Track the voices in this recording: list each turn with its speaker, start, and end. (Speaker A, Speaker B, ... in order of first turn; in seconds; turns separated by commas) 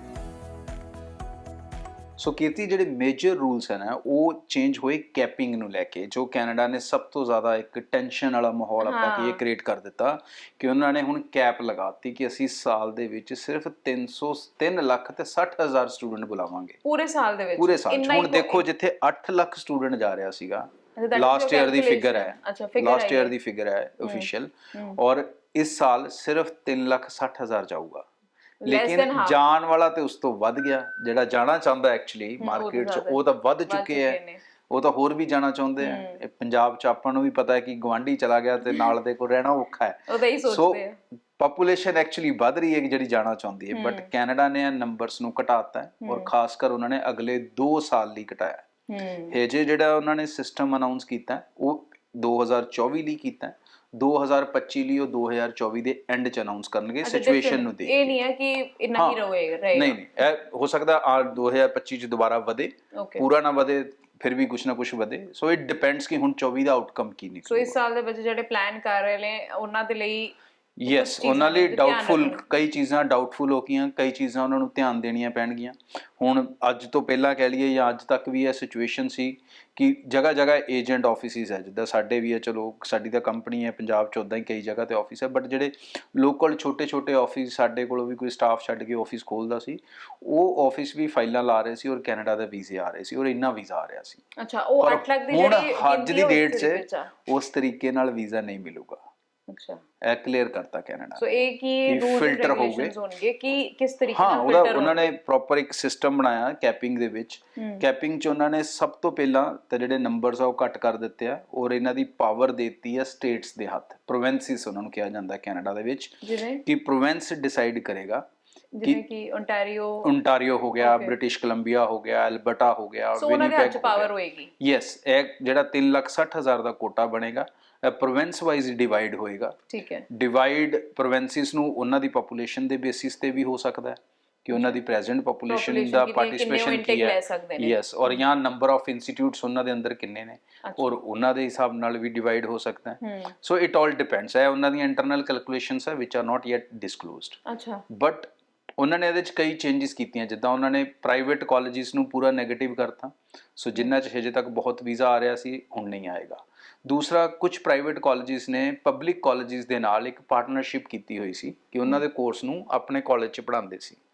Speaker A: 2.2-16.8, Speaker B: 8.8-9.4, Speaker B: 16.8-18.6, Speaker A: 17.6-28.1, Speaker B: 20.9-23.3, Speaker B: 24.0-25.0, Speaker B: 28.6-29.4, Speaker A: 28.6-34.2, Speaker B: 32.4-34.4, Speaker A: 34.7-40.8, Speaker B: 35.8-36.2, Speaker B: 40.1-41.0, Speaker A: 41.4-48.6, Speaker B: 43.7-44.1, Speaker B: 46.0-46.3, Speaker B: 48.9-49.4, Speaker A: 49.3-58.1, Speaker B: 57.0-60.0, Speaker A: 58.9-59.2, Speaker A: 59.7-67.7, Speaker B: 62.9-63.2, Speaker B: 67.5-70.3, Speaker A: 70.8-94.2, Speaker B: 70.9-72.4, Speaker B: 94.4-97.1, Speaker A: 94.8-99.0, Speaker B: 99.5-99.8, Speaker A: 100.0-101.2, Speaker B: 101.2-105.1, Speaker A: 101.9-102.9, Speaker A: 104.1-118.2, Speaker B: 107.5-107.8, Speaker B: 116.2-116.6, Speaker B: 118.7-120.1, Speaker A: 120.0-129.6, Speaker B: 120.8-121.1, Speaker B: 123.2-124.5, Speaker B: 129.7-130.1, Speaker A: 130.1-147.4, Speaker B: 134.5-134.8, Speaker B: 135.5-138.2, Speaker B: 140.6-140.9, Speaker B: 143.0-143.3, Speaker B: 147.4-147.8, Speaker A: 147.9-164.0